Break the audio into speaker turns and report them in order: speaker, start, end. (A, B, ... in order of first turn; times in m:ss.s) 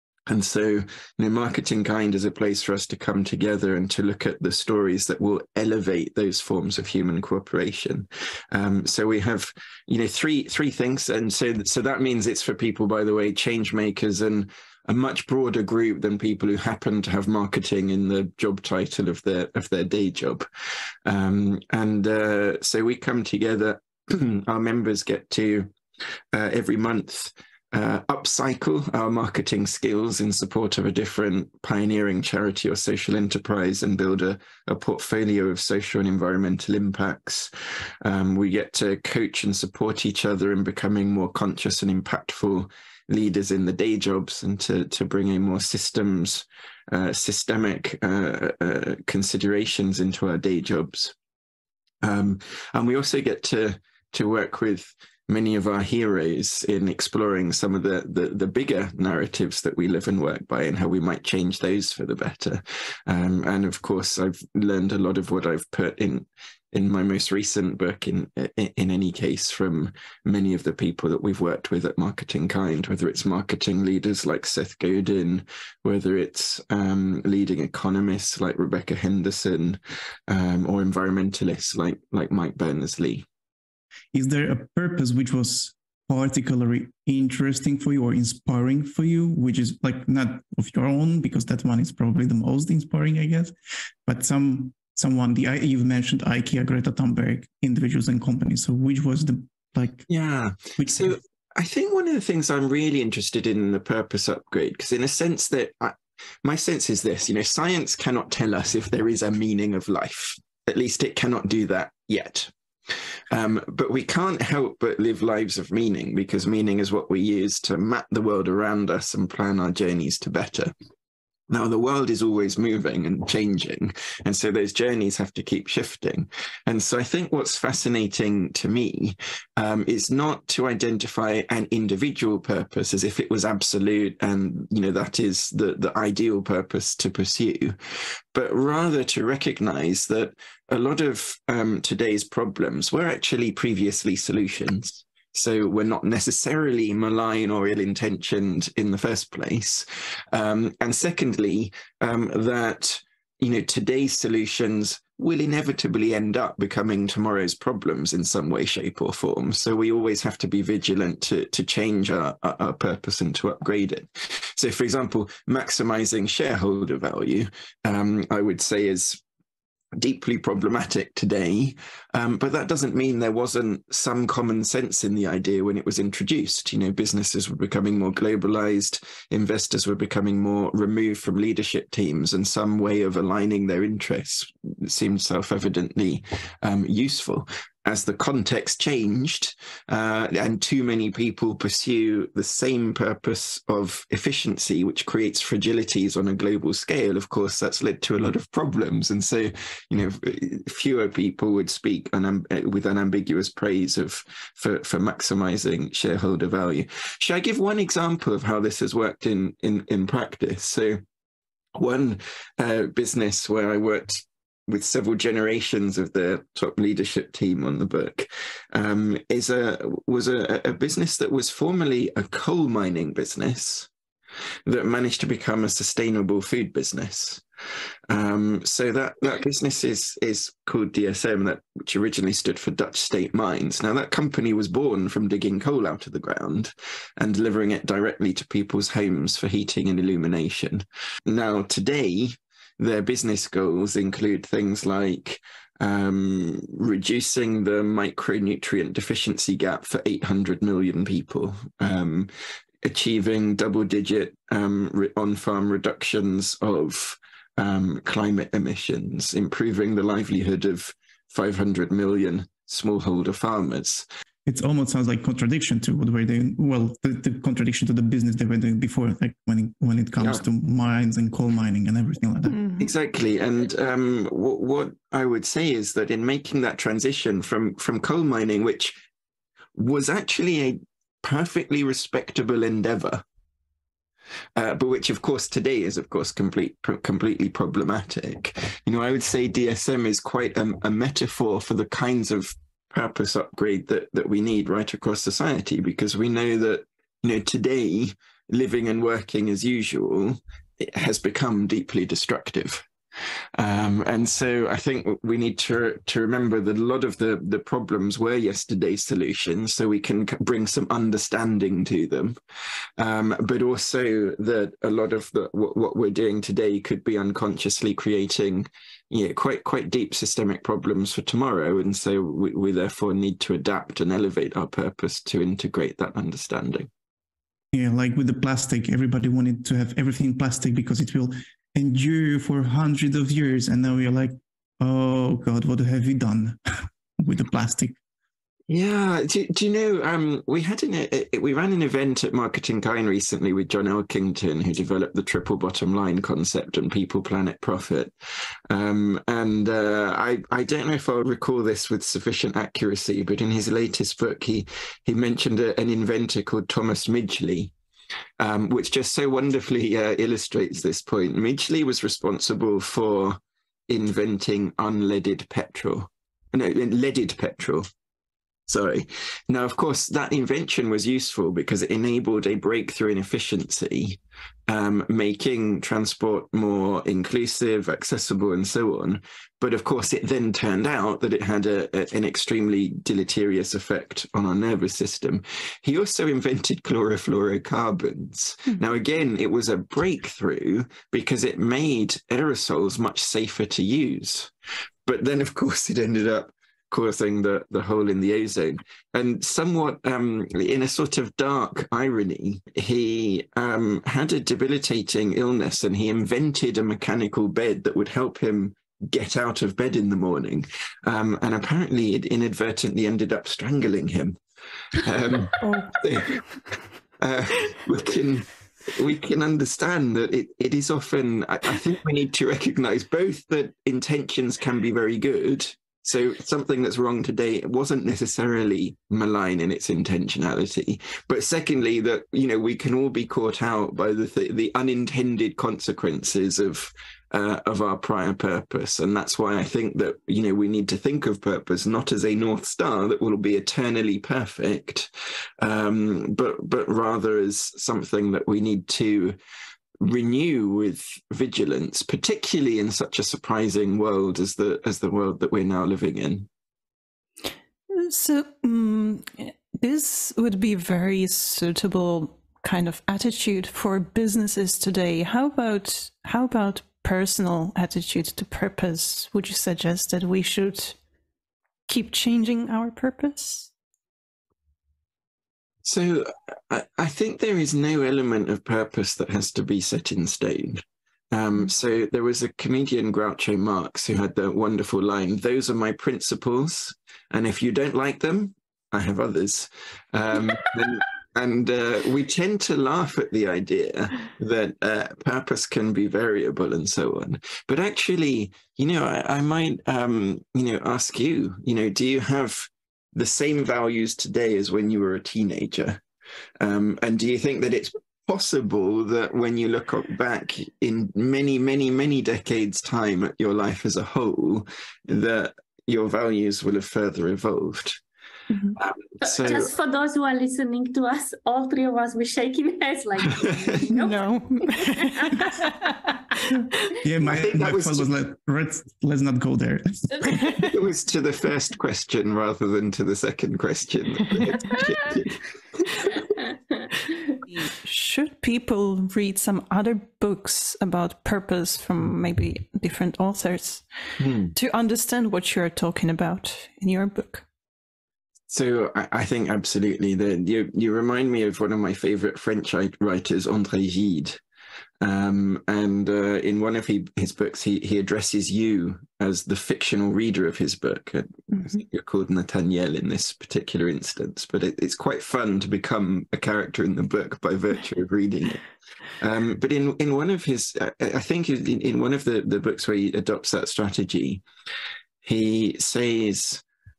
0:00.3-0:20.4 A
0:21.0-0:25.7 A
0:26.3-0:37.5 A
0:38.0-0:51.1 A
0:52.0-1:23.2 A
1:24.1-1:33.5 B
1:34.0-1:40.0 B
1:40.1-1:52.5 A
1:40.8-1:41.1 B
1:53.3-2:00.7 A
2:01.5-2:17.8 A
2:18.3-2:49.2 A
2:50.0-3:31.0 A
3:31.7-3:43.9 A
3:44.6-3:47.4 A
3:48.1-4:12.3 A
4:12.8-4:24.0 A
4:24.4-4:32.6 B
4:30.2-4:30.4 A
4:32.5-4:32.9 C
4:32.8-4:39.0 A
4:39.7-4:43.2 A
4:44.6-5:02.8 A
5:03.6-5:12.3 A
5:13.0-5:26.9 A
5:27.7-5:36.6 B
5:37.2-5:37.9 B
5:38.7-5:48.1 A
5:48.7-5:57.7 A
5:58.4-6:07.9 A
6:08.7-6:34.5 A
6:35.0-6:54.4 A
6:54.9-6:56.4 A
6:55.6-6:56.4 C
6:57.2-7:25.1 A
7:25.6-7:29.4 A
7:30.0-7:36.5 A
7:37.9-7:51.0 C
7:51.9-7:53.7 C
7:55.8-8:26.0 A
8:26.6-8:38.0 A
8:38.5-8:38.8 C
8:38.8-8:39.7 A
8:39.2-8:45.5 D
8:43.9-8:45.9 C
8:47.0-8:50.7 B
8:47.2-8:48.1 A
8:50.4-8:56.1 A
8:57.6-9:07.4 C
9:04.2-9:04.5 A
9:08.5-9:14.4 A
9:15.0-9:28.6 A
9:29.2-9:34.4 A
9:35.2-9:36.6 A